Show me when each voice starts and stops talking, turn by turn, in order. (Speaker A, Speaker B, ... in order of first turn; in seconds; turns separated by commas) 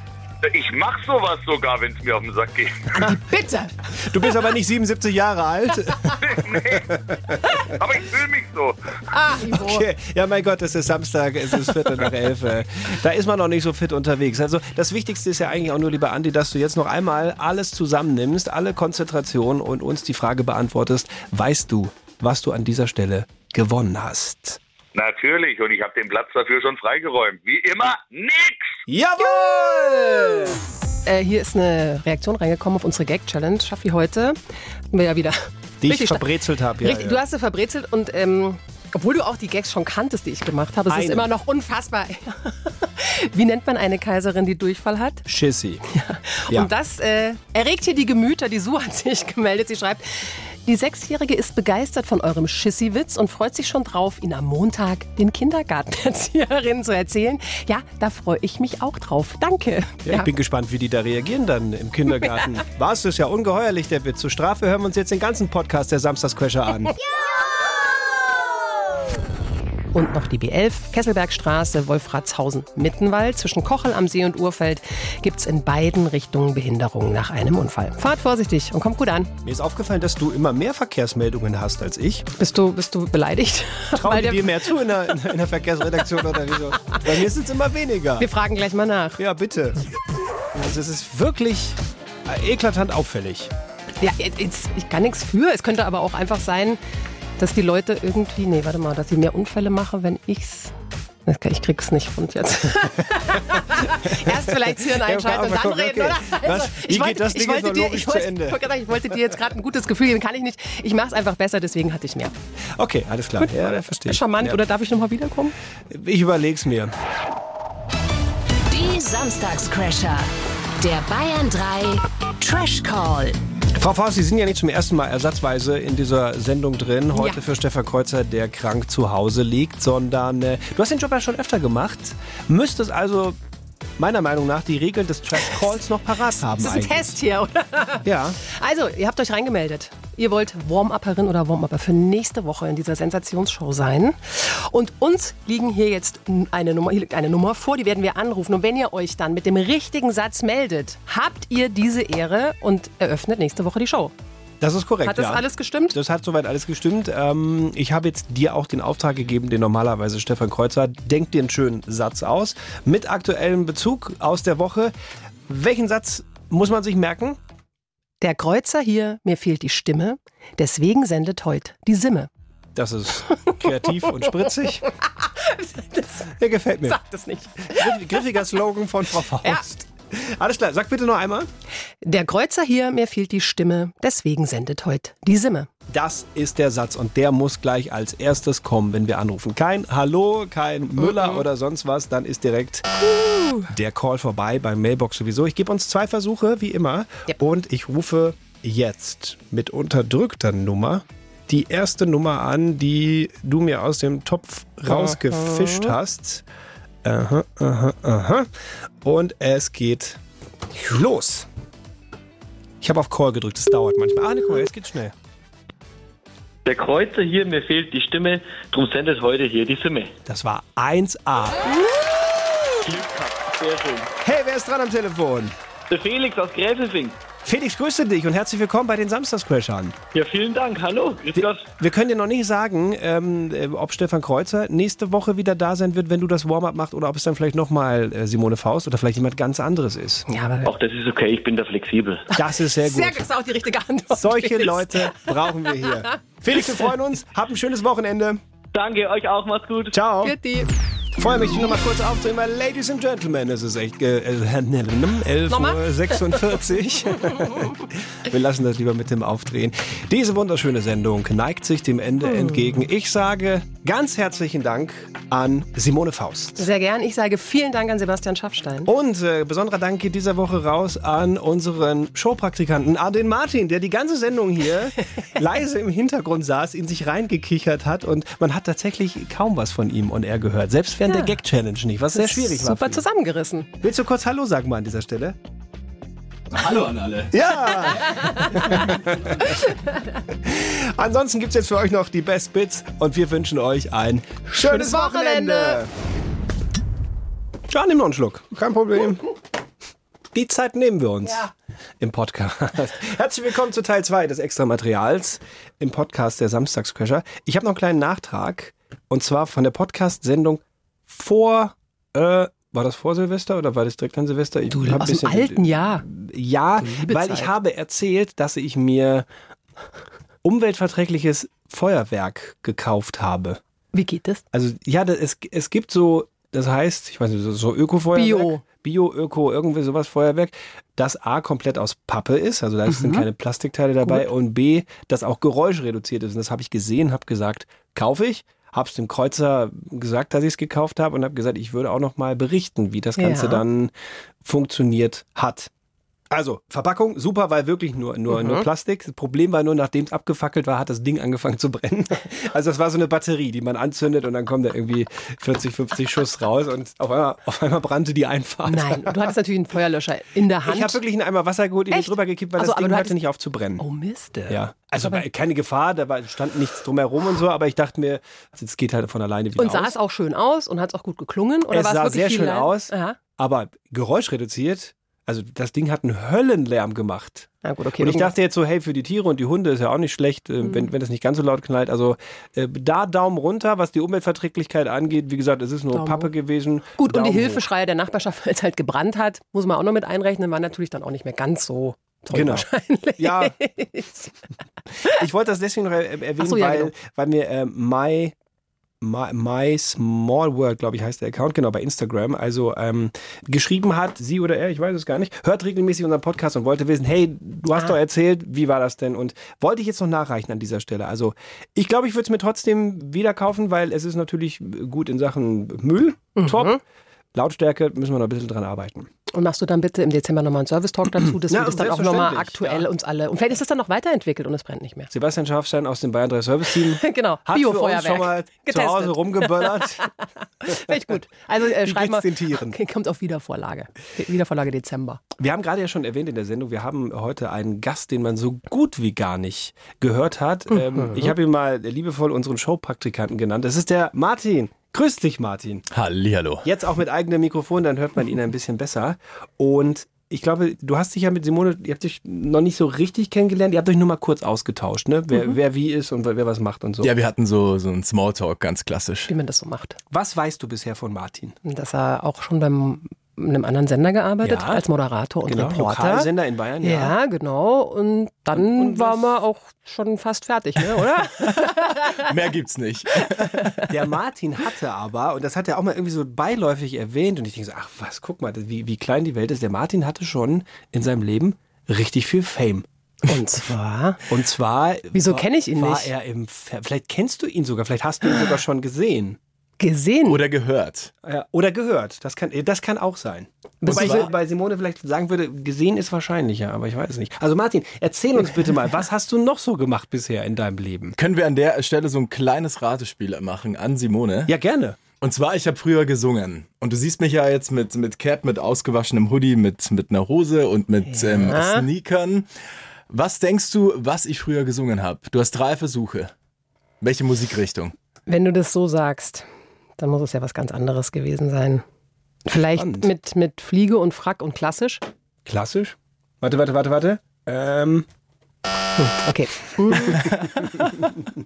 Speaker A: 0.4-2.8, Speaker B: 2.9-3.8, Speaker C: 4.0-7.4, Speaker A: 6.2-6.9, Speaker A: 7.7-8.8, Speaker B: 9.1-9.8, Speaker C: 9.5-24.6, Speaker A: 24.9-28.8, Speaker C: 28.9-30.6, Speaker B: 31.0-34.4, Speaker B: 34.9-36.3, Speaker C: 35.8-37.2, Speaker B: 36.8-45.2, Speaker C: 40.9-41.3, Speaker C: 45.2-45.8, Speaker B: 45.9-60.3, Speaker C: 60.0-66.9, Speaker B: 69.9-79.3, Speaker C: 79.4-82.3, Speaker B: 82.4-84.8, Speaker C: 83.9-88.3, Speaker B: 88.2-89.2, Speaker C: 89.2-89.8, Speaker C: 90.5-93.5, Speaker B: 94.0-96.8, Speaker B: 97.4-100.7, Speaker B: 101.2-112.3, Speaker C: 104.2-108.6, Speaker C: 112.8-114.6, Speaker B: 113.4-115.5, Speaker C: 115.9-116.9, Speaker D: 118.7-120.3, Speaker D: 120.8-123.4, Speaker C: 123.7-133.4, Speaker B: 127.1-127.4, Speaker C: 134.0-137.2, Speaker B: 136.5-154.1, Speaker C: 138.0-138.4, Speaker C: 154.6-164.9, Speaker B: 155.1-155.9, Speaker C: 165.5-167.4, Speaker B: 168.2-172.3, Speaker C: 172.7-174.8, Speaker B: 175.2-176.3, Speaker C: 176.3-177.0, Speaker B: 176.8-178.3, Speaker C: 177.7-181.5, Speaker B: 182.0-185.7, Speaker C: 185.9-192.9, Speaker B: 191.0-191.4, Speaker B: 193.1-193.7, Speaker C: 193.7-206.4, Speaker B: 204.9-205.9, Speaker C: 207.0-208.5, Speaker C: 209.0-210.2, Speaker C: 210.7-211.5, Speaker C: 212.8-215.1, Speaker E: 216.6-220.1, Speaker C: 220.3-221.7, Speaker E: 222.8-224.1, Speaker C: 224.2-225.5, Speaker E: 225.9-227.2, Speaker C: 227.4-229.9, Speaker E: 230.1-231.6, Speaker C: 231.3-240.2, Speaker B: 240.3-240.7, Speaker E: 240.6-242.3, Speaker C: 242.3-243.2, Speaker B: 242.8-245.9, Speaker C: 244.1-248.4, Speaker E: 248.7-249.9, Speaker C: 249.9-250.3, Speaker B: 250.2-250.7, Speaker C: 251.2-266.7, Speaker B: 255.5-256.5, Speaker B: 266.6-268.9, Speaker C: 268.9-283.0, Speaker B: 282.1-283.7, Speaker C: 283.8-285.4, Speaker F: 286.5-287.3, Speaker C: 287.3-289.3, Speaker B: 287.9-288.8, Speaker B: 289.4-289.8, Speaker C: 290.4-295.9, Speaker B: 294.5-295.8, Speaker C: 297.7-299.2, Speaker C: 300.3-319.3, Speaker B: 314.7-316.0, Speaker B: 316.8-317.5, Speaker C: 320.4-323.6, Speaker B: 323.9-324.4, Speaker C: 324.5-343.9, Speaker B: 328.1-328.6, Speaker B: 332.9-333.2, Speaker B: 343.2-343.6, Speaker C: 344.4-345.7, Speaker C: 346.3-359.3, Speaker B: 348.3-348.6, Speaker B: 358.6-361.0, Speaker C: 360.6-363.8, Speaker B: 361.9-363.1, Speaker B: 363.8-365.2, Speaker C: 364.5-369.9, Speaker B: 369.6-373.2, Speaker C: 371.7-387.6, Speaker B: 377.6-378.3, Speaker B: 380.6-380.9, Speaker B: 385.9-386.3, Speaker B: 387.0-394.3, Speaker C: 392.3-392.6, Speaker C: 393.2-393.5, Speaker C: 395.1-398.3, Speaker B: 396.4-396.9, Speaker C: 399.0-416.8, Speaker B: 416.4-416.8, Speaker C: 417.3-419.1, Speaker B: 419.3-425.1, Speaker C: 421.3-422.9, Speaker C: 425.1-430.1, Speaker B: 427.0-429.9, Speaker B: 430.6-435.2, Speaker C: 431.6-432.8, Speaker C: 435.4-445.9, Speaker F: 445.9-446.6, Speaker C: 446.6-457.1, Speaker F: 457.0-459.3, Speaker B: 459.3-460.0, Speaker C: 460.1-461.5, Speaker B: 461.6-466.3, Speaker C: 464.4-464.8, Speaker C: 465.4-467.1, Speaker B: 466.8-472.2, Speaker C: 468.5-469.4, Speaker F: 472.2-473.9, Speaker C: 473.9-482.9, Speaker B: 483.3-484.2, Speaker C: 484.3-489.4, Speaker B: 485.1-486.1, Speaker B: 489.8-490.4, Speaker F: 490.2-491.1, Speaker C: 491.2-501.1, Speaker B: 493.8-494.3, Speaker F: 501.2-504.5, Speaker C: 504.5-505.0, Speaker F: 505.1-512.5, Speaker B: 511.1-511.9, Speaker F: 513.1-516.3, Speaker F: 517.0-517.9, Speaker B: 518.3-519.5, Speaker B: 520.0-521.8, Speaker B: 522.5-525.0, Speaker C: 522.7-523.1, Speaker C: 525.4-528.1, Speaker B: 529.0-530.3, Speaker C: 530.2-530.9